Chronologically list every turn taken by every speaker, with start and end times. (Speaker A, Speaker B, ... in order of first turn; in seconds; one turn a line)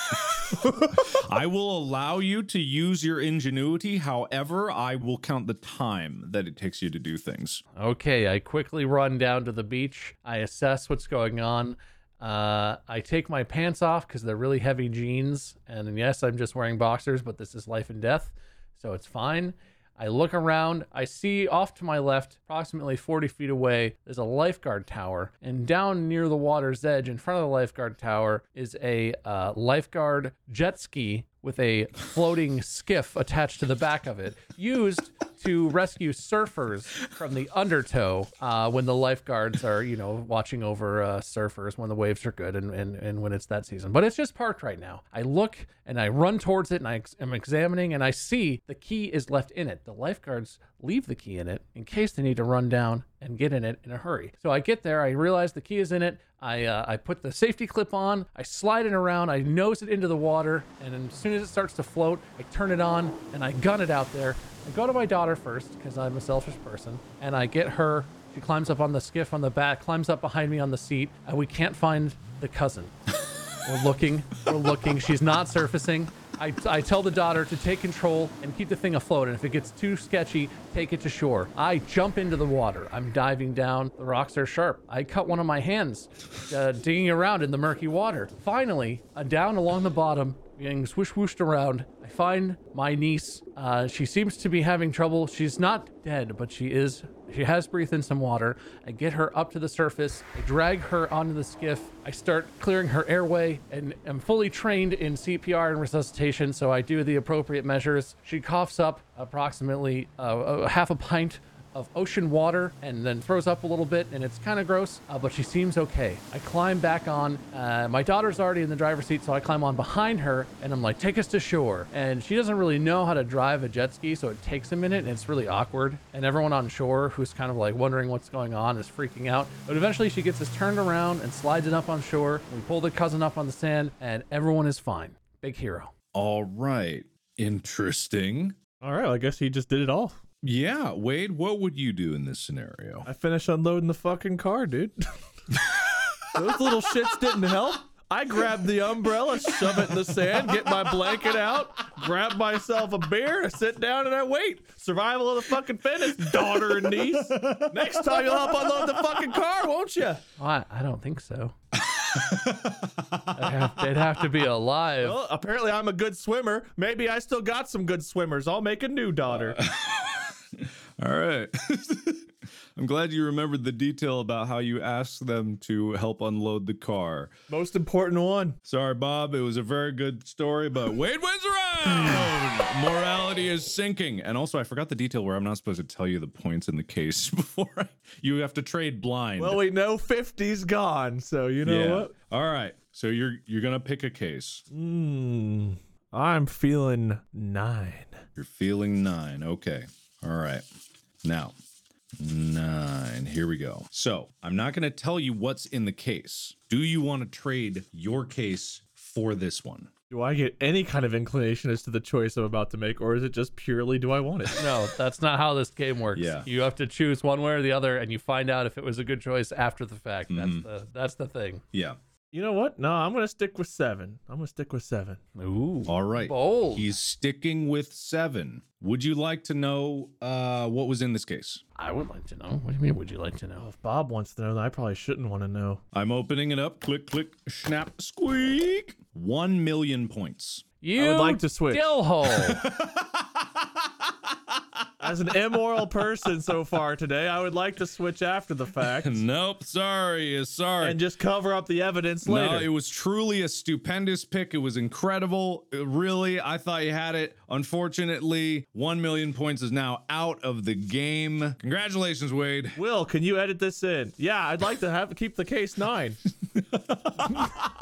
Speaker A: 0.1-7.6
Speaker B: 7.8-72.9
Speaker B: 73.6-135.9
Speaker A: 136.1-138.6
Speaker C: 138.8-140.2
Speaker A: 140.4-143.1
Speaker C: 143.1-145.1
Speaker C: 146.3-160.2
Speaker A: 156.5-158.9
Speaker B: 160.4-161.5
Speaker A: 161.7-164.0
Speaker B: 163.3-165.2
Speaker C: 165.0-169.6
Speaker A: 169.3-177.3
Speaker C: 177.5-178.6
Speaker A: 178.7-189.6
Speaker C: 189.4-192.1
Speaker A: 191.6-194.7
Speaker C: 194.7-198.2
Speaker A: 198.4-200.6
Speaker A: 201.2-201.6
Speaker A: 202.2-209.9
Speaker C: 210.1-214.7
Speaker B: 214.6-221.6
Speaker A: 216.1-216.5
Speaker A: 220.3-220.7
Speaker C: 222.3-225.2
Speaker B: 225.4-226.9
Speaker A: 225.9-231.6
Speaker B: 231.8-233.7
Speaker C: 233.6-235.8
Speaker A: 235.9-240.7
Speaker B: 240.8-242.7
Speaker C: 241.0-242.0
Speaker A: 242.2-244.8
Speaker C: 245.0-249.2
Speaker A: 248.9-251.0
Speaker C: 250.8-252.7
Speaker A: 252.2-262.8
Speaker C: 262.8-266.2
Speaker A: 266.6-267.7